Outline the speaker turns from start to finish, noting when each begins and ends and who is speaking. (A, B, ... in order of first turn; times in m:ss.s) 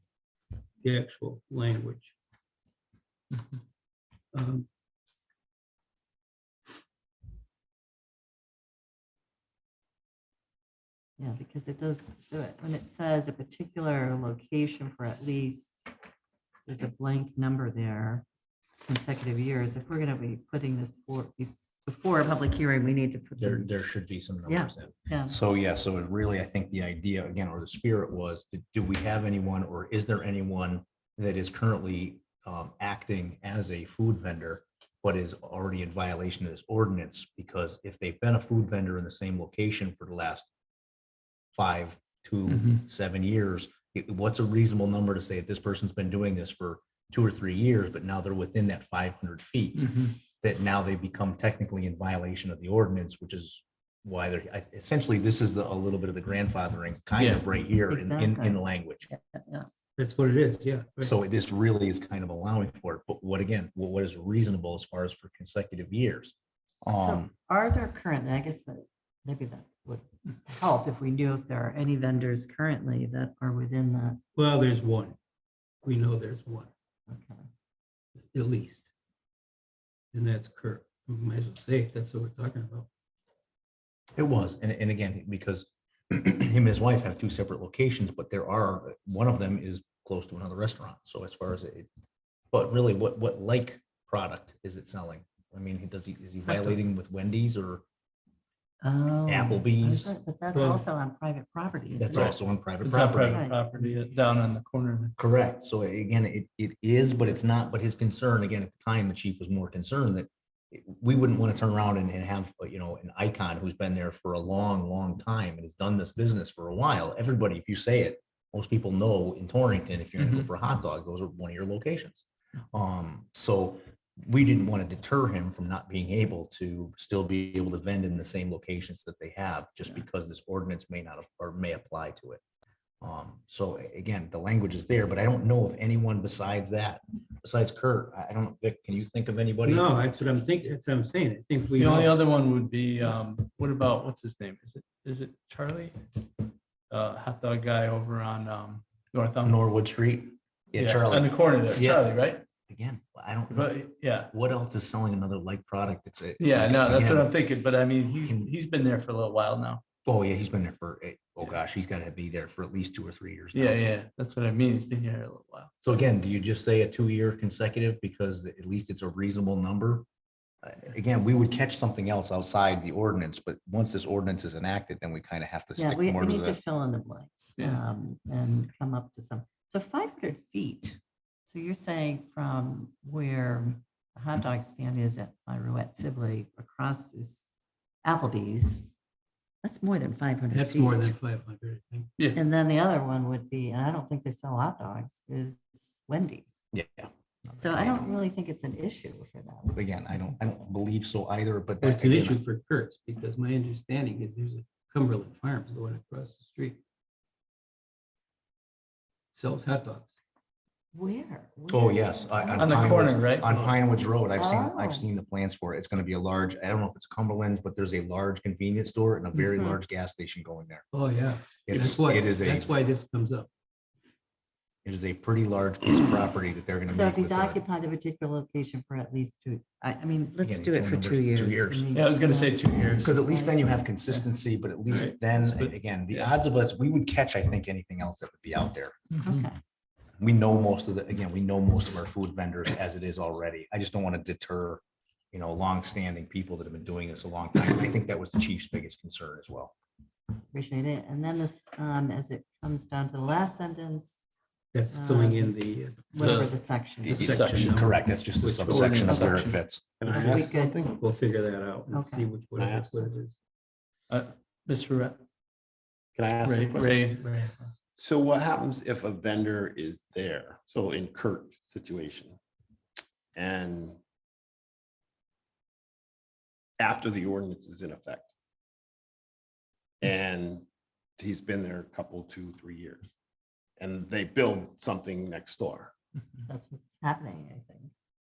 0:00.8-0:02.1 A
0:04.3-0:04.7 A
0:11.2-0:15.9 B
0:16.7-0:18.2 B
0:18.9-0:23.7 B
0:23.4-0:40.5 C
0:24.4-0:25.4 B
0:41.5-0:59.1 C
0:42.5-0:42.8 D
0:49.8-0:50.1 D
0:57.2-0:57.4 D
0:57.9-0:59.7 B
1:00.0-1:01.1 A
1:01.0-1:07.3 C
1:07.0-1:14.2 B
1:14.4-1:15.2 A
1:15.8-1:16.7 A
1:17.1-1:17.4 B
1:18.3-1:18.9 A
1:20.1-1:22.9 A
1:24.2-1:31.9 C
1:32.5-1:37.8 C
1:36.5-1:36.7 B
1:38.8-1:42.4 B
1:39.2-1:40.1 C
1:40.5-1:40.8 A
1:42.0-1:43.4 C
1:42.1-1:45.1 D
1:43.2-1:44.1 B
1:45.2-2:12.4 C
2:00.2-2:00.5 D
2:13.0-2:19.9 C
2:19.6-2:22.1 A
2:21.8-2:26.0 D
2:26.9-2:29.6 D
2:29.4-2:32.1 C
2:30.7-2:32.4 D
2:32.7-2:33.8 C
2:33.5-2:34.3 D
2:34.3-2:37.3 C
2:36.4-2:39.8 D
2:40.0-2:43.8 C
2:43.5-2:45.8 D
2:45.8-2:50.0 C
2:50.6-2:56.6 C
2:55.8-3:07.5 B
2:57.6-2:57.8 D
3:08.0-3:08.8 B
3:09.6-3:11.1 B
3:10.5-3:12.1 A
3:12.3-3:16.6 B
3:16.7-3:18.1 C
3:17.6-3:19.8 B
3:19.7-3:22.4 C
3:21.8-3:26.8 A
3:29.3-3:30.1 A
3:30.9-3:33.2 B
3:31.7-3:40.8 C
3:32.6-3:33.6 D
3:34.4-3:35.0 B
3:39.4-3:39.8 B
3:40.9-3:43.5 A
3:41.7-3:42.7 C
3:44.8-3:47.6 C
3:46.8-3:53.7 B
3:50.4-3:51.9 C
3:51.9-3:53.1 D
3:53.0-3:59.0 C
3:54.9-3:56.3 D
3:59.2-3:59.6 B
4:00.2-4:09.7 C
4:10.5-4:14.2 B
4:14.7-4:16.4 A
4:14.9-4:15.5 B
4:16.1-4:17.5 B
4:16.2-4:16.6 D
4:17.1-4:20.0 C
4:17.1-4:19.5 A
4:17.2-4:17.8 D
4:18.6-4:19.5 D
4:19.1-4:20.9 B
4:20.0-4:23.4 A
4:20.0-4:20.9 E
4:21.9-4:22.3 B
4:22.5-4:23.1 E
4:24.1-4:25.2 D
4:26.1-4:27.1 E
4:26.4-4:27.4 D
4:27.2-4:27.7 A
4:28.0-4:32.4 E
4:33.3-4:34.0 E
4:36.8-4:38.3 E
4:40.0-4:40.6 E
4:41.2-4:43.1 E
4:43.8-4:45.9 E
4:46.5-4:47.9 B